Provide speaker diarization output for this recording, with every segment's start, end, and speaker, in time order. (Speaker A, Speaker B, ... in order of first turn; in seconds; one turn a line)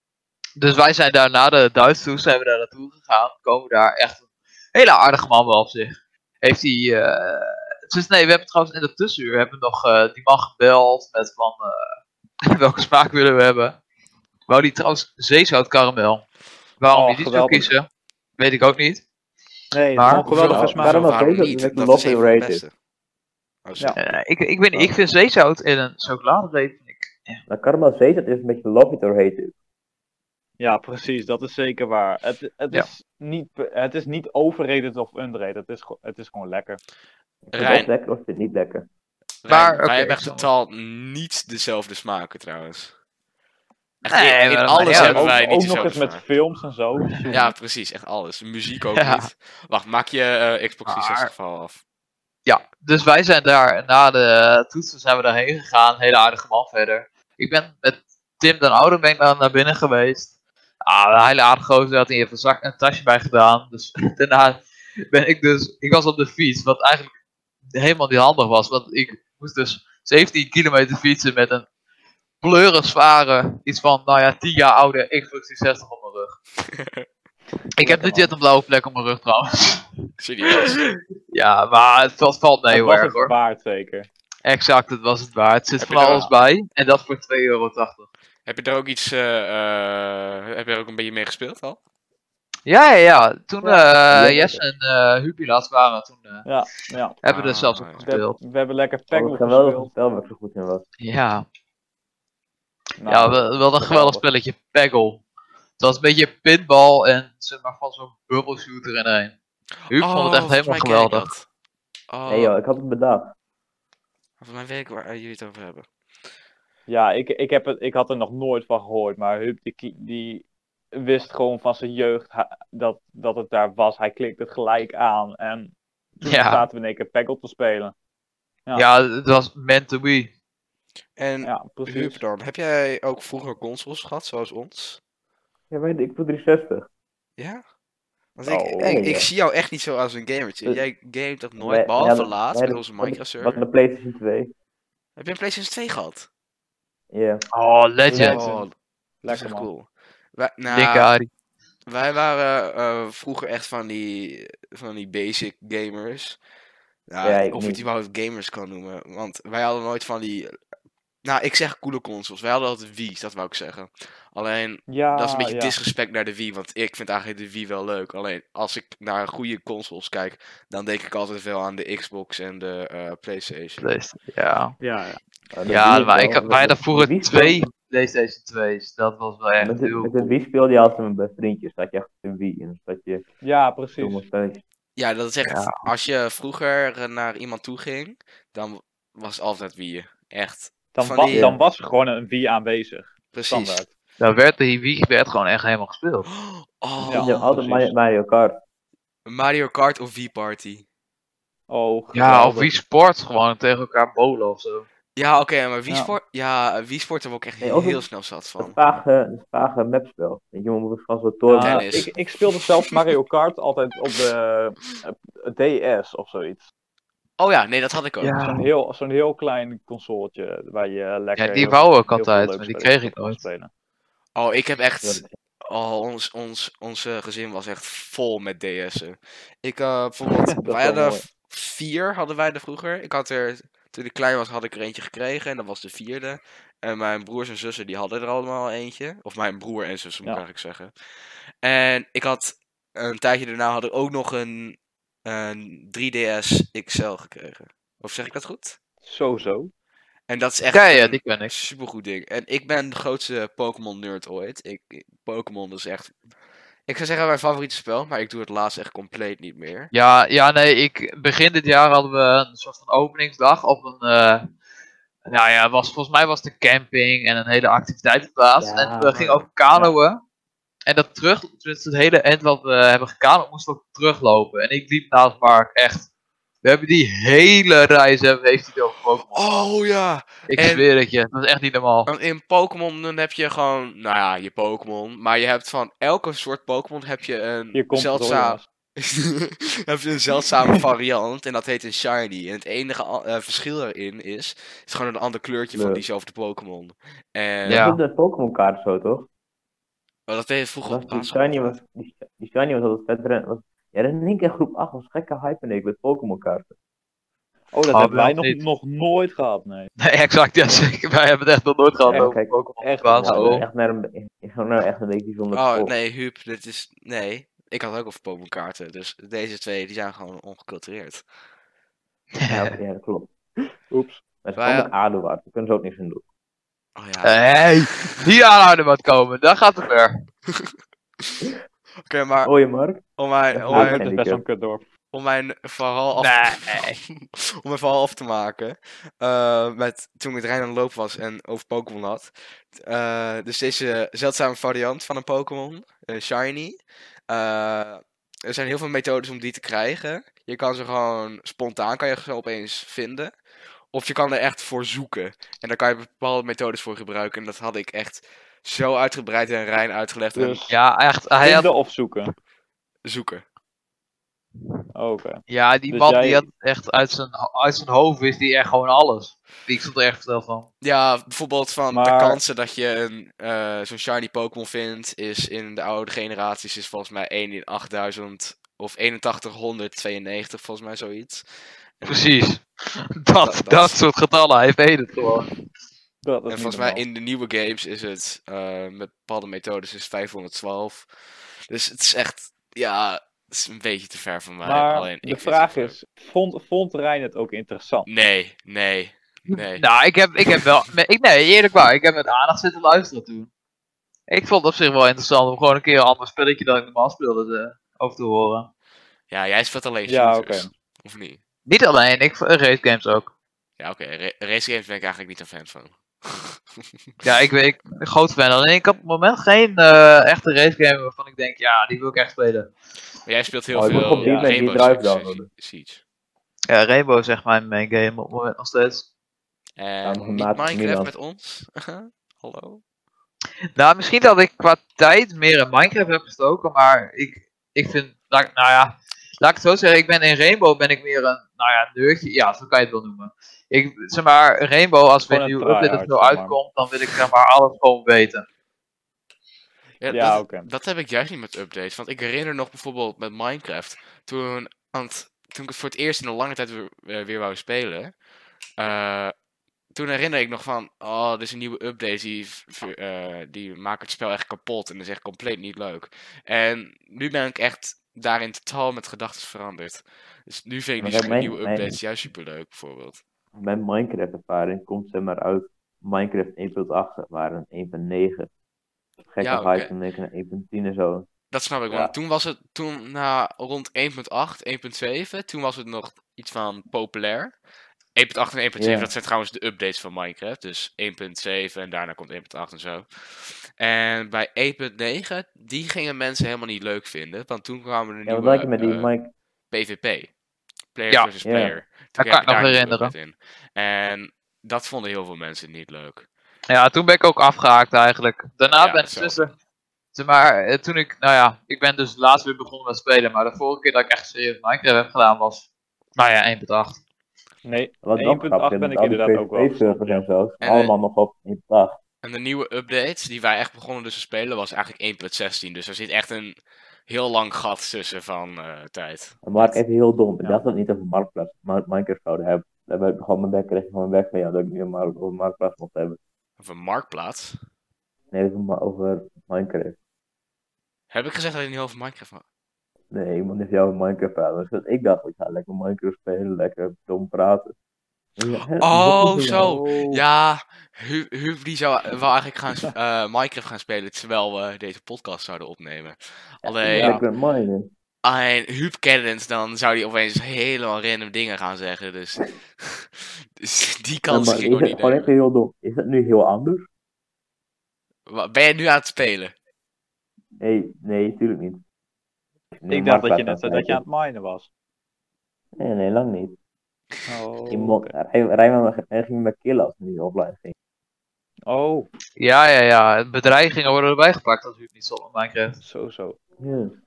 Speaker A: 0.6-4.2
Speaker A: 4.7-11.8
Speaker A: 12.5-13.8
Speaker A: 14.5-16.2
Speaker A: 16.8-17.9
Speaker B: 16.9-17.7
Speaker A: 18.4-19.0
Speaker B: 19.7-21.1
Speaker A: 19.9-20.3
Speaker C: 20.2-22.7
Speaker D: 20.4-22.6
Speaker C: 23.6-24.1
Speaker A: 24.0-27.4
Speaker D: 27.5-29.5
Speaker B: 30.6-36.8
Speaker D: 37.5-38.9
Speaker C: 37.5-37.9
Speaker C: 39.4-42.9
Speaker A: 39.5-40.5
Speaker C: 44.0-46.2
Speaker A: 44.1-45.4
Speaker B: 44.8-47.5
Speaker C: 47.3-51.8
Speaker A: 49.0-49.3
Speaker A: 50.9-51.3
Speaker A: 52.5-60.3
Speaker A: 60.8-67.1
Speaker A: 67.7-71.7
Speaker A: 72.4-76.4
Speaker C: 76.8-77.0
Speaker A: 77.8-79.9
Speaker B: 77.8-78.3
Speaker C: 80.2-80.8
Speaker A: 80.4-83.3
Speaker B: 82.7-84.1
Speaker A: 84.4-88.1
Speaker C: 85.8-86.3
Speaker C: 88.5-91.8
Speaker A: 92.7-96.5
Speaker B: 93.6-94.4
Speaker D: 94.1-94.6
Speaker B: 96.4-97.1
Speaker A: 97.2-98.4
Speaker C: 97.2-98.1
Speaker B: 98.0-99.9
Speaker D: 99.1-100.8
Speaker A: 101.0-101.4
Speaker B: 103.0-104.2
Speaker A: 103.1-105.2
Speaker A: 105.8-109.3
Speaker C: 109.9-111.5
Speaker A: 109.9-111.3
Speaker C: 112.1-112.6
Speaker D: 112.3-113.3
Speaker C: 114.4-115.8
Speaker B: 116.9-127.9
Speaker A: 126.2-126.7
Speaker A: 128.7-130.3
Speaker C: 131.2-135.0
Speaker B: 131.4-132.2
Speaker D: 135.7-136.9
Speaker C: 137.4-137.6
Speaker C: 138.4-143.6
Speaker B: 138.4-138.9
Speaker D: 138.8-139.3
Speaker D: 141.6-144.5
Speaker C: 145.2-146.3
Speaker D: 147.1-147.4
Speaker A: 147.5-148.4
Speaker C: 148.1-148.7
Speaker B: 148.2-148.6
Speaker B: 149.2-149.7
Speaker C: 149.3-151.1
Speaker A: 150.7-151.3
Speaker C: 151.9-156.4
Speaker C: 157.1-160.5
Speaker D: 157.2-157.8
Speaker C: 161.2-173.9
Speaker B: 164.9-165.8
Speaker A: 173.8-174.7
Speaker B: 174.8-175.2
Speaker D: 175.5-177.6
Speaker A: 175.7-180.2
Speaker D: 179.6-183.2
Speaker B: 183.4-184.2
Speaker D: 184.0-184.6
Speaker C: 184.9-191.6
Speaker A: 185.5-185.8
Speaker B: 190.9-193.9
Speaker D: 191.3-191.6
Speaker C: 193.3-193.8
Speaker A: 194.2-196.3
Speaker C: 196.3-197.9
Speaker B: 197.0-197.3
Speaker D: 197.1-198.6
Speaker C: 199.2-200.8
Speaker B: 201.7-202.7
Speaker A: 202.1-204.9
Speaker C: 205.1-208.8
Speaker B: 205.9-206.1
Speaker D: 207.6-208.0
Speaker D: 208.6-211.9
Speaker B: 211.5-216.7
Speaker C: 211.6-212.1
Speaker C: 217.4-218.4
Speaker A: 218.2-218.6
Speaker B: 218.4-223.7
Speaker A: 221.3-223.4
Speaker C: 224.3-240.9
Speaker D: 225.0-225.3
Speaker D: 230.6-231.2
Speaker C: 241.6-248.8
Speaker B: 249.0-249.7
Speaker C: 250.3-256.2
Speaker A: 250.7-251.5
Speaker C: 256.9-259.9
Speaker A: 259.9-264.5
Speaker A: 265.3-270.2
Speaker D: 268.6-269.9
Speaker A: 270.9-276.1
Speaker A: 276.6-279.5
Speaker C: 279.3-280.9
Speaker A: 280.5-282.1
Speaker C: 282.1-297.9
Speaker B: 287.7-288.6
Speaker D: 295.7-296.0
Speaker D: 297.6-299.3
Speaker A: 297.7-298.0
Speaker C: 300.3-301.8
Speaker D: 300.9-306.7
Speaker B: 307.7-309.9
Speaker A: 307.9-308.6
Speaker A: 310.0-313.6
Speaker B: 312.1-313.6
Speaker D: 312.1-312.5
Speaker D: 313.2-315.9
Speaker C: 315.5-321.2
Speaker A: 322.4-322.8
Speaker D: 322.5-323.4
Speaker B: 323.9-324.2
Speaker D: 324.4-326.2
Speaker C: 324.6-324.9
Speaker C: 326.9-328.2
Speaker A: 327.2-330.2
Speaker C: 331.2-331.5
Speaker C: 332.1-332.5
Speaker D: 332.4-333.0
Speaker C: 333.2-334.1
Speaker D: 333.5-334.4
Speaker B: 333.7-334.9
Speaker C: 335.1-353.4
Speaker A: 336.1-337.0
Speaker C: 353.9-360.6
Speaker B: 360.3-360.8
Speaker A: 360.7-361.7
Speaker B: 361.4-362.3
Speaker C: 363.0-363.4
Speaker B: 364.9-366.4
Speaker A: 365.5-370.7
Speaker C: 370.8-381.4
Speaker B: 371.9-372.4
Speaker C: 382.0-382.2
Speaker A: 382.0-385.5
Speaker C: 383.4-384.0
Speaker B: 386.2-387.0
Speaker C: 386.5-391.1
Speaker C: 391.7-395.9
Speaker B: 394.6-398.1
Speaker C: 398.1-399.8
Speaker A: 399.5-403.5
Speaker A: 404.3-408.7
Speaker C: 409.3-411.4
Speaker B: 410.1-410.7
Speaker A: 411.6-413.3
Speaker C: 413.8-416.6
Speaker A: 417.2-422.7
Speaker C: 423.2-426.0
Speaker D: 423.7-425.5
Speaker B: 423.9-424.5
Speaker A: 426.7-429.1
Speaker C: 429.8-432.8
Speaker D: 430.0-431.1
Speaker A: 433.8-448.4
Speaker B: 445.3-446.6
Speaker C: 450.0-458.1
Speaker B: 450.1-450.7
Speaker C: 458.8-459.3
Speaker C: 459.9-473.2
Speaker D: 471.0-471.9
Speaker D: 473.5-478.5
Speaker D: 479.3-481.3
Speaker C: 479.4-479.9
Speaker C: 481.5-487.5
Speaker C: 488.1-499.1
Speaker D: 488.8-489.1
Speaker D: 498.2-499.3
Speaker C: 499.7-500.3
Speaker C: 500.9-506.2
Speaker D: 501.4-501.8
Speaker A: 502.2-503.1
Speaker A: 506.7-509.5
Speaker C: 508.7-509.5
Speaker A: 510.1-517.0
Speaker B: 517.6-520.2
Speaker D: 518.0-522.0
Speaker C: 520.6-520.9
Speaker C: 522.2-529.8
Speaker D: 529.4-536.2
Speaker C: 536.6-537.6
Speaker D: 538.3-540.0
Speaker C: 541.1-542.4
Speaker D: 543.1-547.7
Speaker D: 548.4-549.7
Speaker C: 548.6-557.2
Speaker B: 549.5-550.2
Speaker D: 556.6-557.9
Speaker B: 556.9-557.2
Speaker C: 558.2-565.3
Speaker D: 564.3-566.9
Speaker C: 568.3-569.5
Speaker D: 570.6-571.8
Speaker D: 572.7-574.0
Speaker B: 572.9-574.7
Speaker D: 575.8-576.5
Speaker B: 577.3-578.1
Speaker D: 577.7-580.7
Speaker B: 581.7-582.1
Speaker A: 582.4-585.8
Speaker B: 585.8-586.4
Speaker D: 586.6-587.0